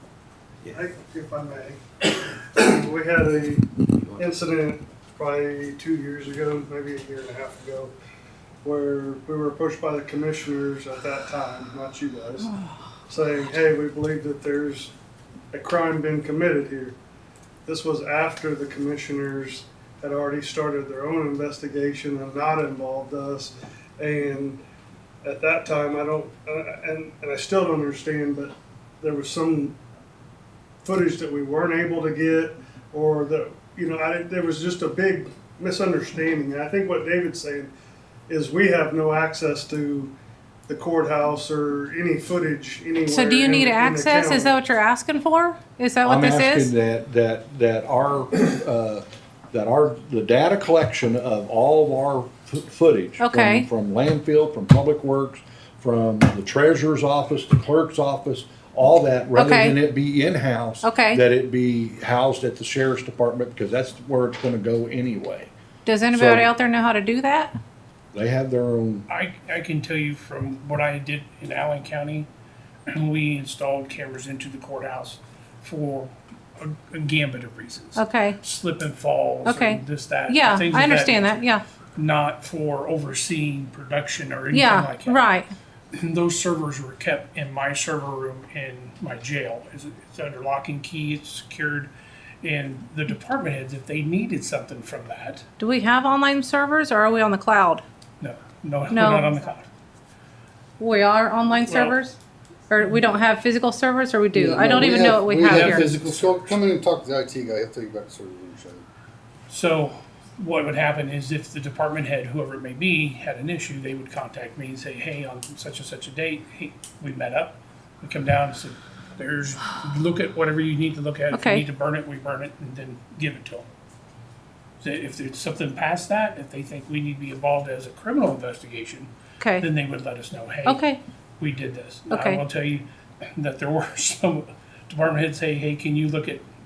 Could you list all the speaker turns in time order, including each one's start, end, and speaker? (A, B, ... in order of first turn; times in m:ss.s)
0:00.7-0:07.9 A
0:08.6-0:12.5 A
0:13.1-0:14.9 A
0:15.5-0:17.0 A
0:17.6-0:24.6 A
0:25.2-0:29.8 A
0:30.8-0:37.7 A
0:38.3-0:40.1 A
0:40.7-0:44.6 A
0:43.0-0:46.7 B
0:46.0-1:05.5 C
0:53.2-0:53.7 B
0:59.3-0:59.8 B
1:00.8-1:01.2 B
1:05.8-1:07.5 B
1:06.1-1:06.5 C
1:08.1-1:09.0 C
1:09.1-1:12.3 D
1:12.9-1:21.4 D
1:18.0-1:18.4 B
1:19.4-1:21.6 B
1:22.0-1:25.2 D
1:24.5-1:25.5 B
1:25.9-1:31.9 D
1:32.4-1:35.4 D
1:35.6-1:37.8 B
1:38.2-1:39.6 D
1:38.9-1:39.3 B
1:40.8-1:42.2 B
1:41.6-1:42.0 D
1:42.7-1:45.8 B
1:44.3-1:48.8 E
1:45.3-1:46.6 D
1:49.5-2:03.7 D
2:01.3-2:01.6 B
2:04.8-2:10.8 D
2:09.4-2:09.7 B
2:10.6-2:11.0 B
2:11.4-2:16.4 D
2:12.1-2:12.4 B